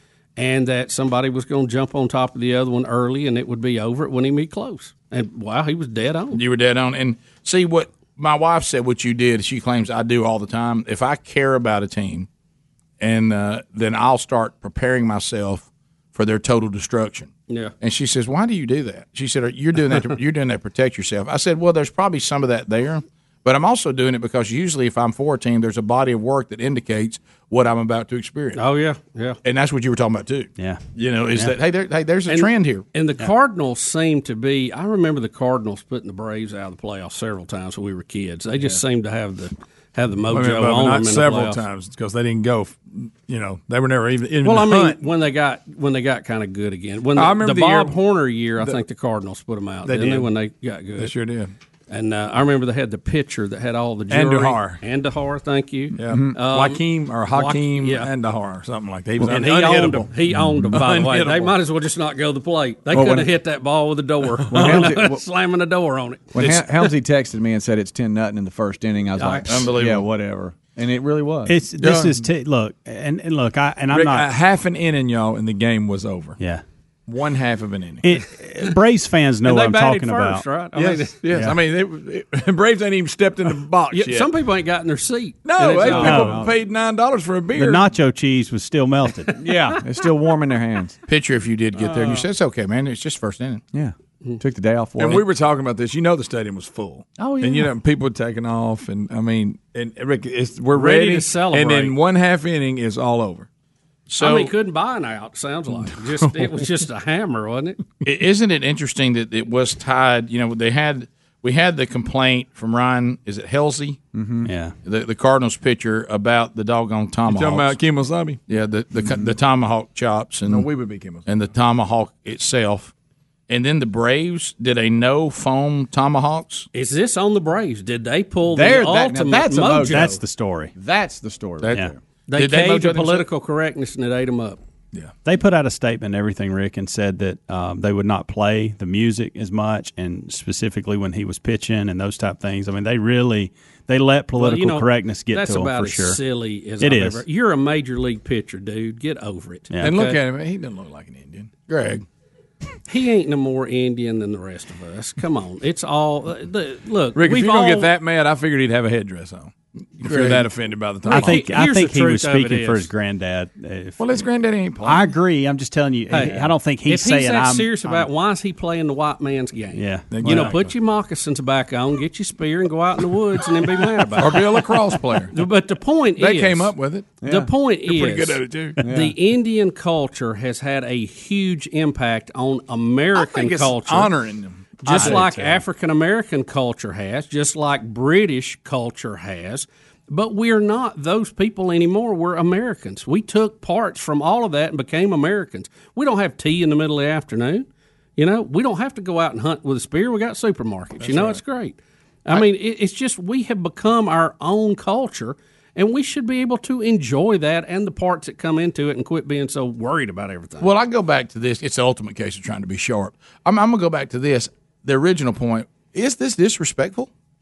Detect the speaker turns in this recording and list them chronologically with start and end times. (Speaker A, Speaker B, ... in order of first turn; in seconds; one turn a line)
Speaker A: 0.4-6.4
Speaker B: 6.3-12.3
Speaker B: 13.0-28.6
Speaker A: 28.6-29.4
Speaker B: 29.4-32.9
Speaker A: 32.3-41.6
Speaker C: 40.3-45.0
Speaker A: 44.4-51.1
Speaker C: 47.1-48.0
Speaker C: 49.8-50.3
Speaker C: 51.0-51.5
Speaker A: 51.9-58.1
Speaker C: 54.1-54.8
Speaker C: 56.0-61.6
Speaker D: 56.1-56.3
Speaker A: 59.2-66.8
Speaker D: 62.9-63.3
Speaker D: 64.5-65.2
Speaker C: 64.5-64.8
Speaker D: 66.3-71.6
Speaker A: 69.2-69.5
Speaker B: 69.5-70.0
Speaker E: 71.5-74.3
Speaker C: 71.8-72.2
Speaker C: 73.9-76.4
Speaker C: 77.1-78.1
Speaker E: 78.0-80.4
Speaker A: 79.4-81.2
Speaker C: 80.7-84.3
Speaker E: 81.3-81.6
Speaker A: 83.9-86.3
Speaker C: 85.4-87.9
Speaker E: 85.9-86.5
Speaker D: 86.1-86.5
Speaker E: 87.5-89.4
Speaker D: 89.4-91.0
Speaker B: 91.1-93.6
Speaker D: 93.7-95.2
Speaker C: 95.0-103.5
Speaker D: 97.2-97.7
Speaker A: 100.7-101.9
Speaker B: 104.1-104.5
Speaker A: 104.2-107.8
Speaker B: 108.0-114.0
Speaker D: 114.1-114.5
Speaker E: 114.4-114.7
Speaker B: 114.8-117.7
Speaker C: 117.3-118.4
Speaker B: 118.5-120.7
Speaker C: 120.4-121.2
Speaker B: 121.2-122.9
Speaker B: 123.5-126.7
Speaker A: 126.7-130.2
Speaker D: 128.4-130.2
Speaker E: 129.8-130.7
Speaker D: 130.7-132.0
Speaker B: 131.6-133.2
Speaker A: 132.3-134.6
Speaker E: 135.2-146.2
Speaker A: 144.4-150.2
Speaker E: 146.8-147.2
Speaker E: 149.7-150.0
Speaker C: 149.8-151.5
Speaker B: 151.7-152.0
Speaker A: 152.9-157.9
Speaker C: 157.2-159.5
Speaker B: 160.0-160.4
Speaker C: 160.0-161.4
Speaker A: 161.1-162.9
Speaker E: 161.1-164.1
Speaker C: 164.0-165.1
Speaker E: 164.8-168.1
Speaker A: 166.1-174.7
Speaker E: 169.7-170.5
Speaker C: 170.1-170.7
Speaker C: 174.2-175.3
Speaker A: 175.3-184.1
Speaker C: 176.2-177.2
Speaker D: 177.2-177.5
Speaker C: 177.8-178.8
Speaker D: 178.8-179.1
Speaker C: 183.1-185.6
Speaker A: 184.8-210.7
Speaker C: 201.0-201.4
Speaker B: 210.6-217.1